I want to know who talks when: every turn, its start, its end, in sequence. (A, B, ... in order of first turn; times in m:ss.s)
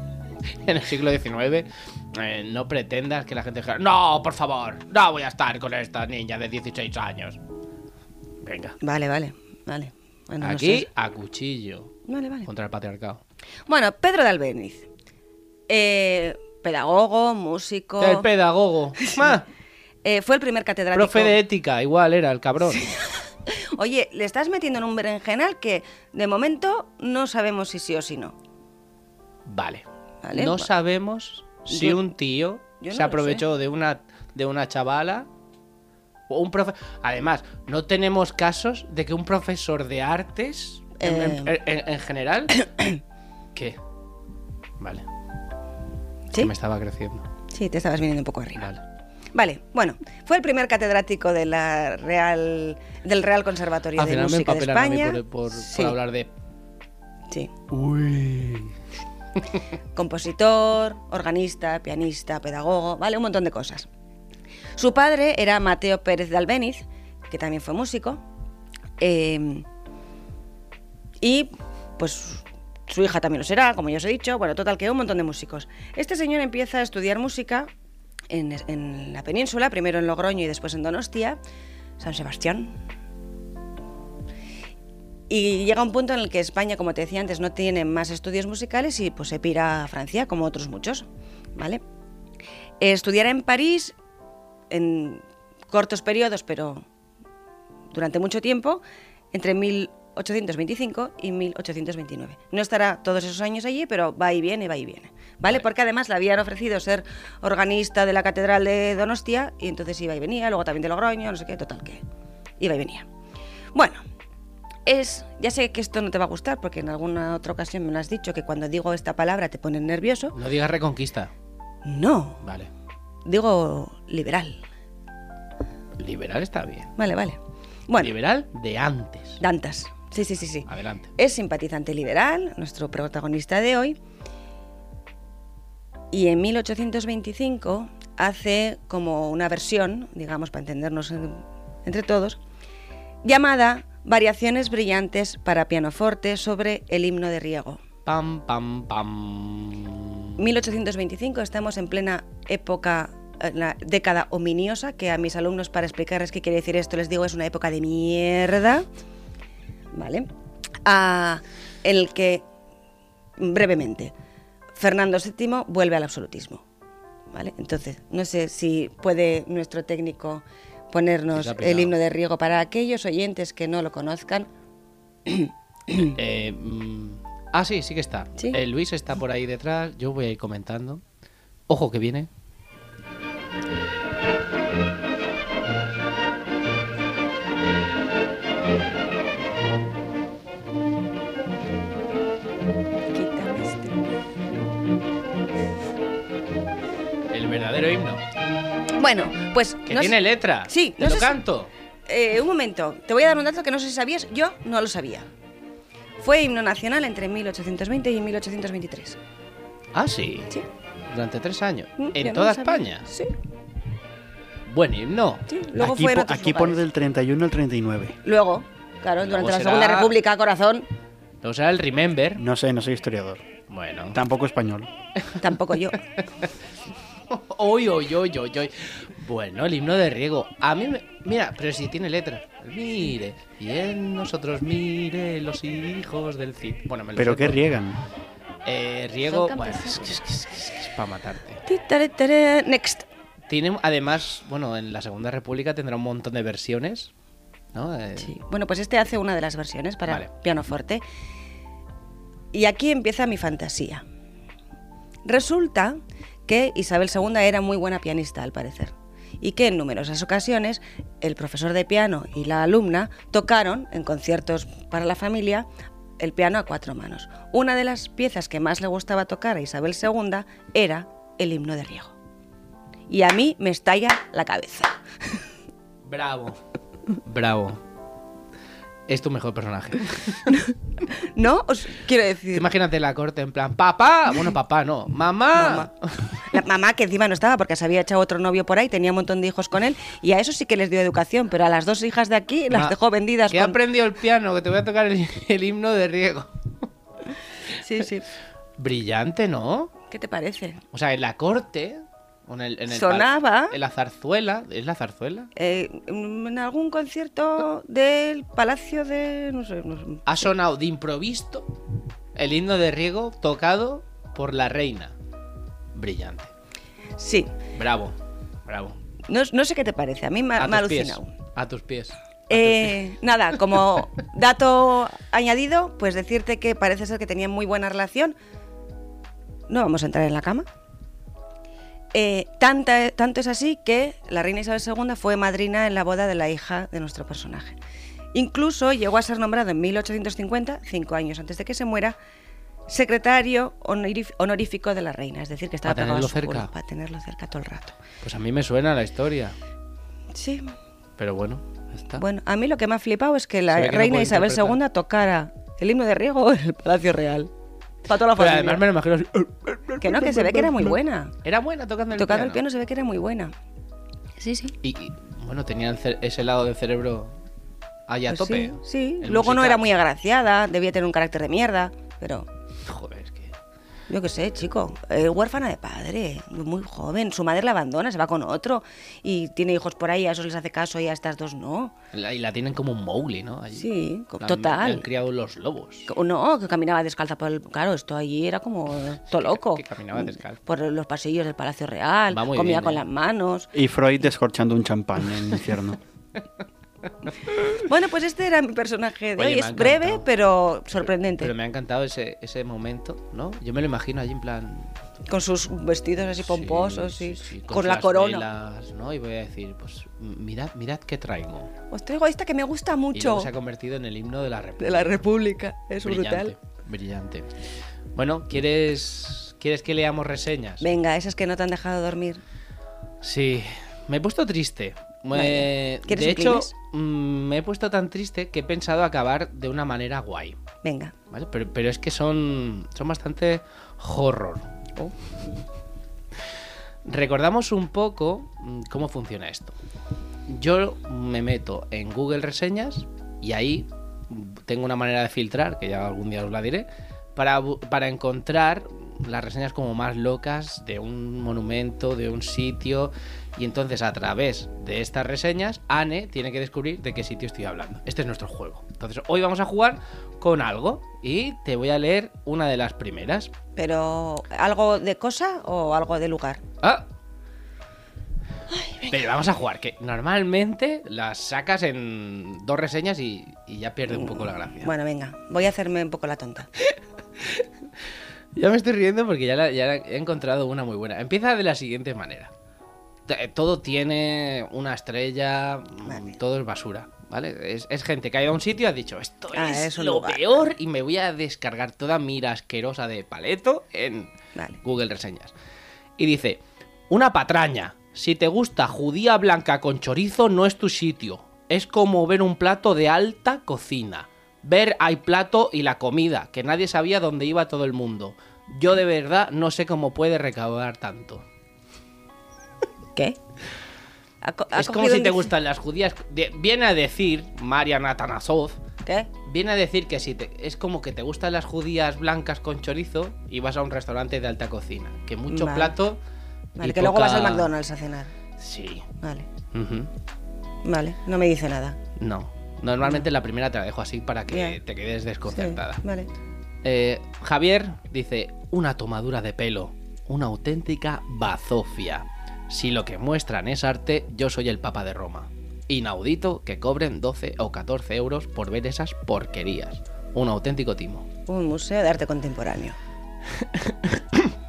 0:00.6-0:07.4 A
0:08.4-0:08.8 A
0:08.8-0:10.9 B
0:10.4-0:13.2 A
0:12.1-0:12.5 B
0:13.7-0:14.9 B
0:15.7-0:18.3 B
0:18.0-0:19.5 A
0:19.0-0:19.3 B
0:20.0-0:21.4 B
0:20.9-0:22.9 A
0:22.7-0:28.4 B
0:29.5-0:35.3 A
0:30.2-0:30.7 B
0:31.7-0:32.0 B
0:32.8-0:33.5 B
0:36.3-0:42.7 A
0:41.0-0:41.6 B
0:44.8-0:45.1 A
0:46.4-0:47.2 A
0:47.5-0:48.7 B
0:49.3-0:56.0 B
0:54.0-0:56.3 A
0:57.7-0:58.8 A
1:00.0-1:03.9 B
1:04.8-1:08.2 B
1:09.0-1:09.7 B
1:11.2-1:17.7 B
1:18.3-1:21.4 B
1:22.0-1:22.8 B
1:25.3-1:31.8 B
1:32.8-1:34.0 B
1:34.7-1:36.9 B
1:37.9-1:38.8 B
1:39.3-1:52.0 B
1:52.6-1:53.1 B
1:53.7-1:54.0 B
1:54.9-2:00.4 B
2:00.3-2:01.3 A
2:01.8-2:02.4 B
2:02.4-2:02.7 A
2:03.2-2:04.6 B
2:06.0-2:06.9 A
2:07.0-2:08.2 B
2:08.0-2:09.4 A
2:09.4-2:14.0 B
2:10.7-2:11.1 A
2:16.1-2:22.4 B
2:23.2-2:27.8 B
2:28.1-2:30.3 A
2:30.4-2:38.9 B
2:39.9-2:40.3 B
2:40.8-2:42.4 B
2:43.4-2:44.1 B
2:44.8-2:46.6 B
2:47.3-2:54.5 B
2:51.3-2:52.0 A
2:55.3-2:56.2 B
2:56.1-3:01.0 A
3:01.7-3:02.3 A
3:13.1-3:14.0 B
3:17.3-3:18.2 A
3:19.0-3:21.4 B
3:19.9-3:21.7 A
3:22.1-3:25.3 B
3:26.2-3:29.2 B
3:29.9-3:30.5 A
3:31.1-3:33.1 A
3:32.0-3:33.3 B
3:34.7-3:35.5 A
3:35.5-3:36.8 B
3:35.8-3:38.2 C
3:38.2-3:40.9 B
3:39.2-3:40.2 A
3:41.4-3:42.4 A
3:42.4-3:43.4 C
3:43.7-3:44.2 A
3:44.1-3:44.9 C
3:45.4-3:46.0 B
3:47.3-3:57.6 A
3:57.2-3:58.0 C
3:58.6-4:01.6 A
3:59.3-4:00.2 B
4:01.7-4:03.1 B
4:03.5-4:07.1 A
4:07.7-4:08.3 A
4:08.2-4:11.0 B
4:12.5-4:14.0 B
4:15.3-4:25.7 B
4:26.2-4:32.2 B
4:33.1-4:35.4 B
4:36.0-4:36.6 A
4:37.3-4:37.8 A
4:39.1-4:40.6 A
4:40.5-4:42.7 B
4:42.5-4:46.4 A
4:45.6-4:45.9 B
4:46.5-4:53.8 B
4:53.5-4:56.5 A
4:57.8-4:58.3 B
4:58.8-4:59.9 A
5:00.1-5:00.8 B
5:00.9-5:05.5 A
5:02.9-5:03.8 B
5:05.6-5:10.5 B
5:10.3-5:11.7 A
5:12.4-5:15.2 A
5:15.9-5:16.5 A
5:17.2-5:17.5 B
5:17.8-5:19.0 A
5:19.3-5:21.3 B
5:20.6-5:23.0 A
5:22.5-5:28.4 B
5:29.7-5:30.7 B
5:32.1-5:37.8 B
5:38.3-5:42.2 B
5:42.9-5:48.0 B
5:45.9-5:46.7 A
5:48.2-5:49.6 A
5:50.3-5:50.8 B
5:51.2-5:52.2 A
5:52.2-5:57.5 B
5:53.7-5:54.8 A
5:58.1-5:58.8 B
5:58.4-6:02.6 A
6:00.0-6:01.4 B
6:02.2-6:03.5 B
6:04.4-6:04.8 B
6:04.8-6:07.4 A
6:08.1-6:09.8 A
6:08.3-6:12.5 B
6:12.9-6:13.5 A
6:14.1-6:21.9 B
6:22.1-6:26.1 A
6:23.7-6:25.1 B
6:26.1-6:33.7 B
6:29.3-6:30.6 A
6:32.3-6:33.0 A
6:33.7-6:36.0 C
6:37.2-6:37.7 A
6:37.7-6:41.5 B
6:39.4-6:40.3 A
6:41.4-6:44.9 A
6:45.3-6:48.4 B
6:46.4-6:51.7 A
6:51.9-6:53.5 B
6:53.2-6:55.2 A
6:54.8-6:56.6 B
6:56.0-6:57.5 A
6:58.2-7:00.8 A
7:00.8-7:02.4 B
7:03.2-7:10.6 A
7:05.3-7:06.7 B
7:10.8-7:11.1 B
7:11.3-7:14.7 A
7:17.0-7:19.7 A
7:20.5-7:43.5 A
7:43.8-7:46.6 B
7:48.8-7:49.1 B
7:49.0-7:54.9 A
7:54.1-7:56.7 B
7:58.6-8:02.5 A
8:03.3-8:14.3 A
8:06.1-8:06.3 B
8:09.5-8:10.8 B
8:14.8-8:15.5 A
8:16.2-8:31.4 A
8:34.4-8:35.5 B
8:34.7-8:38.8 A
8:39.4-8:46.2 A
8:45.5-8:46.0 B
8:46.8-8:48.3 B
8:46.8-8:47.7 A
8:48.6-8:49.0 A
8:49.2-8:49.5 B
8:49.7-8:50.1 A
8:50.8-8:52.0 B
8:52.2-8:56.0 A
8:54.5-8:54.8 B
8:55.5-8:56.3 B
8:56.8-9:11.3 A
9:11.5-9:13.0 B
9:13.6-9:14.5 A